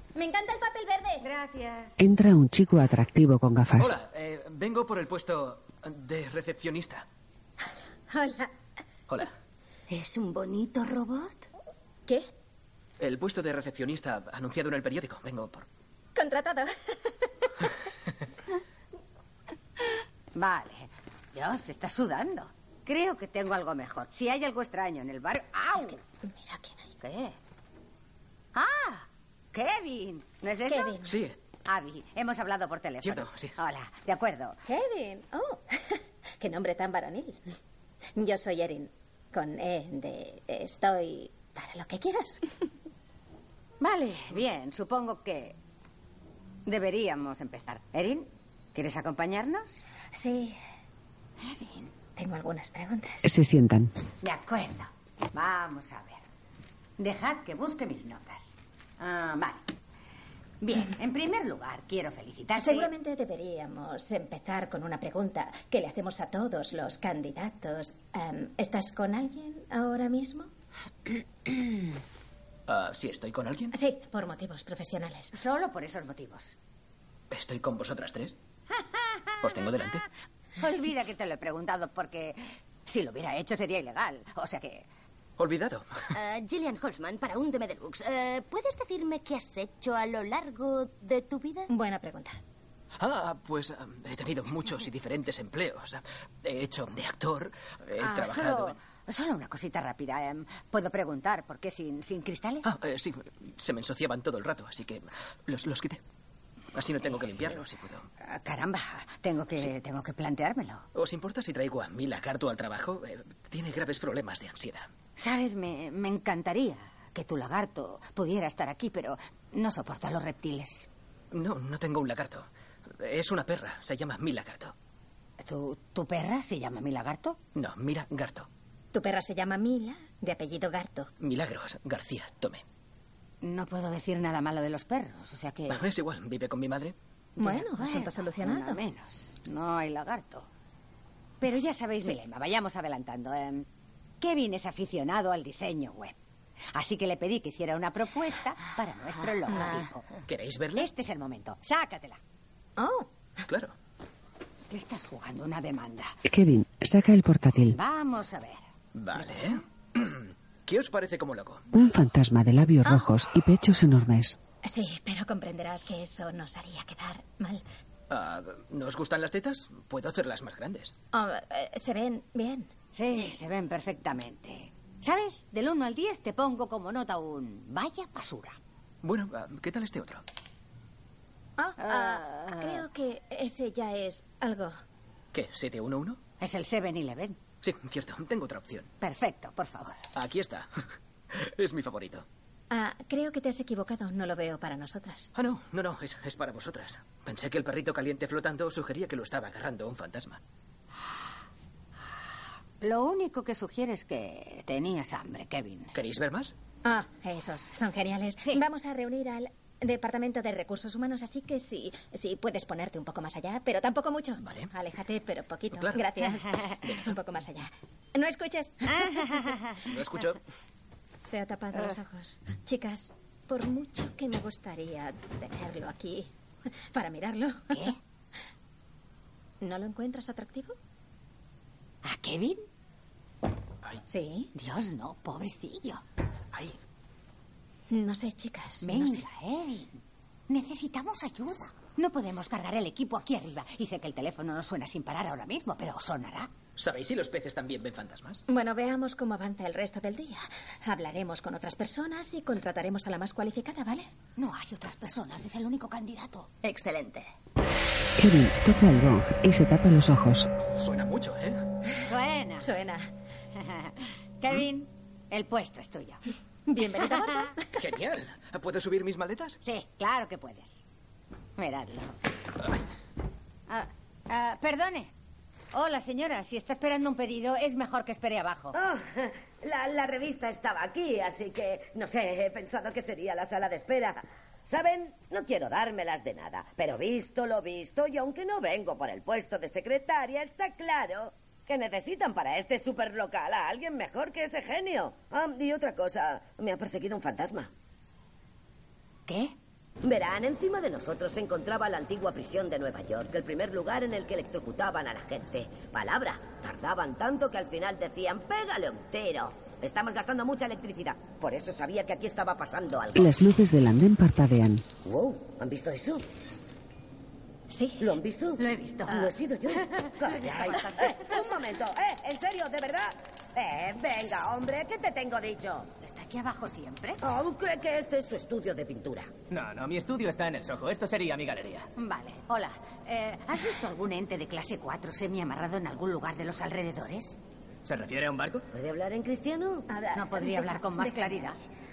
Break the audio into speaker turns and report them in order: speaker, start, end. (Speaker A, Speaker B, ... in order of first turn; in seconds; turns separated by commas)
Speaker A: 0.1-1.2, Speaker B: 1.2-2.0, Speaker C: 2.0-4.0, Speaker D: 3.8-7.0, Speaker A: 8.1-8.5, Speaker E: 9.9-11.5, Speaker D: 13.0-15.7, Speaker A: 16.1-17.5, Speaker B: 20.3-26.0, Speaker A: 25.8-26.9, Speaker B: 27.0-27.4, Speaker B: 28.5-31.0, Speaker A: 30.7-31.2, Speaker D: 31.0-31.4, Speaker B: 31.6-34.6, Speaker D: 33.0-33.5, Speaker A: 34.6-37.4, Speaker A: 38.1-42.5, Speaker B: 43.8-45.6, Speaker B: 46.6-49.8, Speaker A: 50.1-50.6, Speaker B: 51.4-51.9, Speaker A: 52.1-53.3, Speaker C: 53.2-53.9, Speaker B: 54.2-56.2, Speaker B: 57.0-59.6, Speaker B: 60.6-62.9, Speaker A: 62.6-70.5, Speaker D: 72.7-73.7, Speaker A: 73.7-75.3, Speaker B: 75.3-76.5, Speaker D: 77.3-78.3, Speaker B: 78.7-79.3, Speaker D: 79.4-80.0, Speaker B: 80.6-84.8, Speaker D: 85.4-86.0, Speaker E: 86.1-91.7, Speaker A: 91.7-92.4, Speaker D: 93.0-98.8, Speaker B: 98.0-102.7, Speaker D: 102.6-106.0, Speaker D: 106.7-108.1, Speaker B: 108.2-110.8, Speaker D: 110.9-114.9, Speaker B: 115.2-120.9, Speaker D: 121.3-122.5, Speaker D: 123.0-124.7, Speaker B: 125.4-127.4, Speaker D: 127.5-128.5, Speaker A: 128.9-131.1, Speaker D: 131.2-132.6, Speaker B: 133.4-135.8, Speaker D: 135.7-136.9, Speaker A: 137.4-138.8, Speaker B: 137.4-140.5, Speaker B: 141.4-143.7, Speaker B: 144.2-146.2, Speaker B: 146.7-150.1, Speaker D: 150.3-150.9, Speaker B: 150.8-152.2, Speaker A: 152.8-153.1, Speaker D: 153.4-153.7, Speaker B: 154.7-156.1, Speaker C: 156.2-157.8, Speaker B: 157.7-158.6, Speaker D: 158.9-161.7, Speaker C: 161.7-164.4, Speaker A: 164.6-167.6, Speaker D: 168.1-170.9, Speaker A: 171.1-172.7, Speaker B: 172.9-178.6, Speaker D: 179.0-180.2, Speaker A: 181.6-184.8, Speaker B: 181.8-182.8, Speaker D: 185.3-186.2, Speaker B: 186.4-187.4, Speaker D: 187.6-188.9, Speaker B: 189.0-190.0, Speaker D: 190.1-190.8, Speaker D: 191.3-192.2, Speaker A: 192.7-195.3, Speaker D: 195.3-200.4, Speaker B: 202.8-205.9, Speaker D: 205.9-206.5, Speaker A: 206.8-219.5, Speaker D: 214.4-214.7, Speaker D: 215.7-216.0, Speaker B: 219.1-219.8, Speaker D: 219.8-220.4, Speaker A: 221.2-227.9, Speaker A: 229.6-230.7, Speaker B: 232.0-232.6, Speaker A: 234.1-234.5, Speaker B: 234.5-236.0, Speaker A: 237.9-239.2, Speaker B: 238.8-246.5, Speaker D: 246.8-248.4, Speaker A: 248.5-254.1, Speaker B: 254.4-256.5, Speaker E: 256.6-257.3, Speaker C: 258.2-260.5, Speaker D: 260.7-261.6, Speaker B: 262.0-262.7, Speaker A: 262.6-263.1, Speaker B: 263.6-266.2, Speaker A: 266.7-267.6, Speaker B: 267.0-267.5, Speaker D: 267.8-269.6, Speaker B: 269.6-270.8, Speaker B: 271.6-272.1, Speaker B: 273.7-275.1, Speaker B: 275.7-278.8, Speaker F: 278.7-297.7, Speaker B: 299.3-299.5, Speaker F: 300.0-313.3, Speaker C: 313.1-314.8, Speaker F: 315.0-316.2, Speaker A: 317.7-318.1, Speaker F: 318.0-325.9, Speaker B: 318.6-321.5, Speaker B: 326.0-327.2, Speaker F: 327.2-329.3, Speaker G: 329.5-331.9, Speaker B: 332.0-337.4, Speaker G: 337.8-338.6, Speaker F: 338.7-339.9, Speaker A: 339.9-341.4, Speaker B: 340.1-341.6